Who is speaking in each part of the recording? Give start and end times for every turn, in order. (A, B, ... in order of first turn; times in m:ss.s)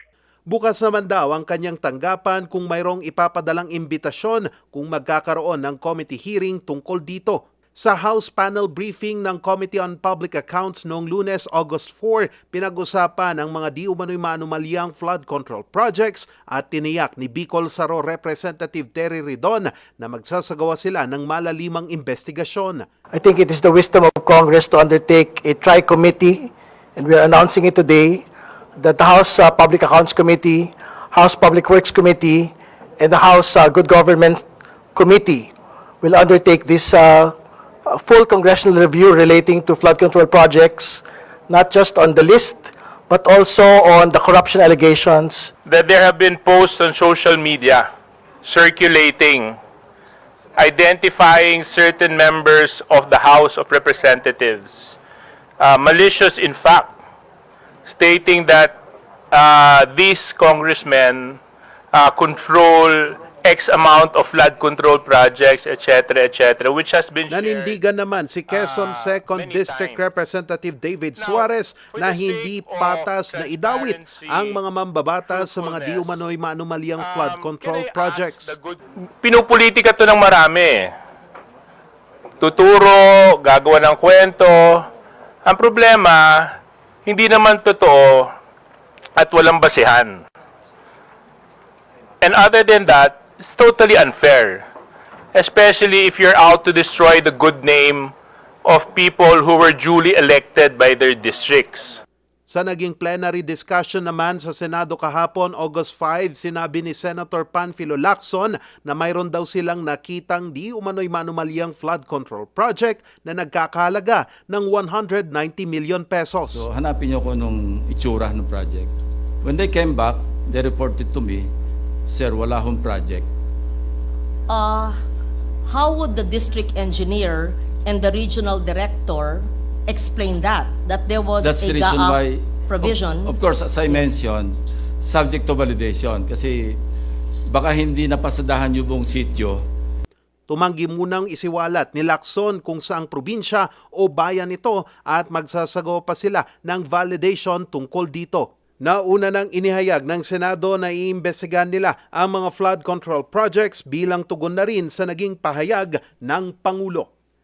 0:00.5-0:22.8 A
0:23.1-0:28.2 B
0:28.8-0:34.4 B
0:35.0-0:35.5 B
0:36.0-0:37.3 B
0:37.9-0:45.5 B
0:45.7-0:47.9 C
0:48.4-0:49.6 C
0:50.6-0:55.0 C
0:55.6-0:57.0 C
0:57.9-0:58.8 C
0:59.3-1:01.4 C
1:01.9-1:07.8 C
1:07.3-1:18.6 A
1:08.5-1:10.1 C
1:11.2-1:14.6 C
1:15.3-1:16.2 C
1:17.0-1:20.9 C
1:22.4-1:24.9 C
1:25.4-1:26.5 C
1:27.1-1:28.3 C
1:29.2-1:30.2 C
1:32.2-1:34.6 C
1:35.3-1:38.1 C
1:38.6-1:42.0 C
1:42.5-1:56.7 A
1:56.5-2:01.5 D
2:02.1-2:03.3 D
2:04.5-2:05.0 E
2:05.7-2:14.2 E
2:11.4-2:16.8 D
2:17.5-2:19.6 D
2:20.5-2:37.1 A